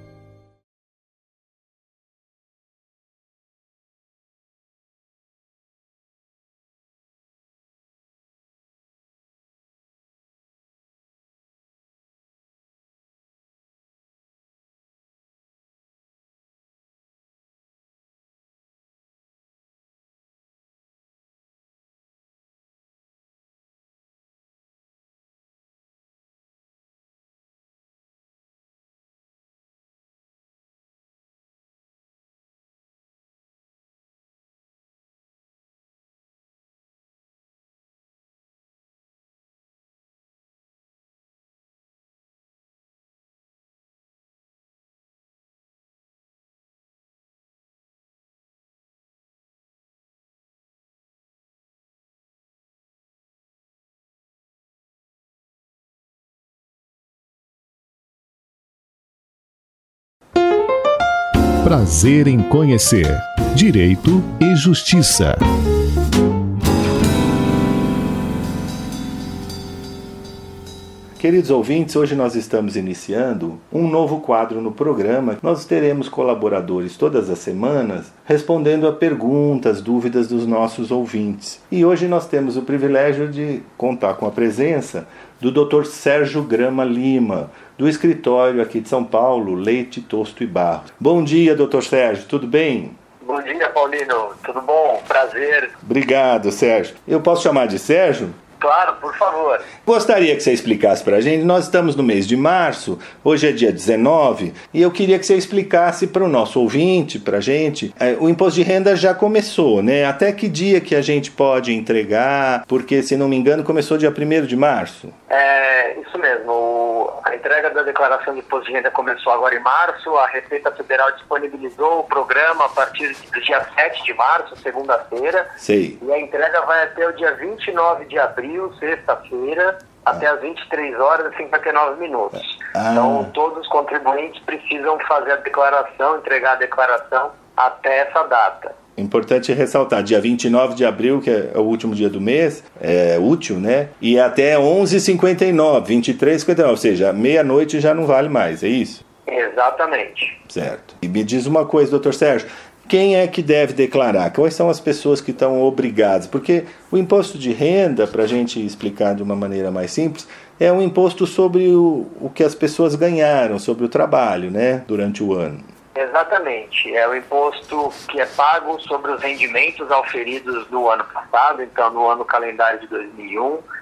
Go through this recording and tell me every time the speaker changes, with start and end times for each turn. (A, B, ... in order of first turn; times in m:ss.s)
1:01.6-1:05.4 A
1:11.2-1:33.0 B
1:33.2-1:35.7 C
1:35.8-1:38.4 B
1:38.6-1:39.7 C
1:39.8-1:55.1 B
1:55.3-2:05.5 C
2:05.6-2:06.0 B
2:06.0-2:18.8 C
2:12.7-2:13.3 B
2:19.0-2:29.0 B
2:29.3-2:30.4 C
2:30.5-2:45.6 B
2:46.0-2:53.6 C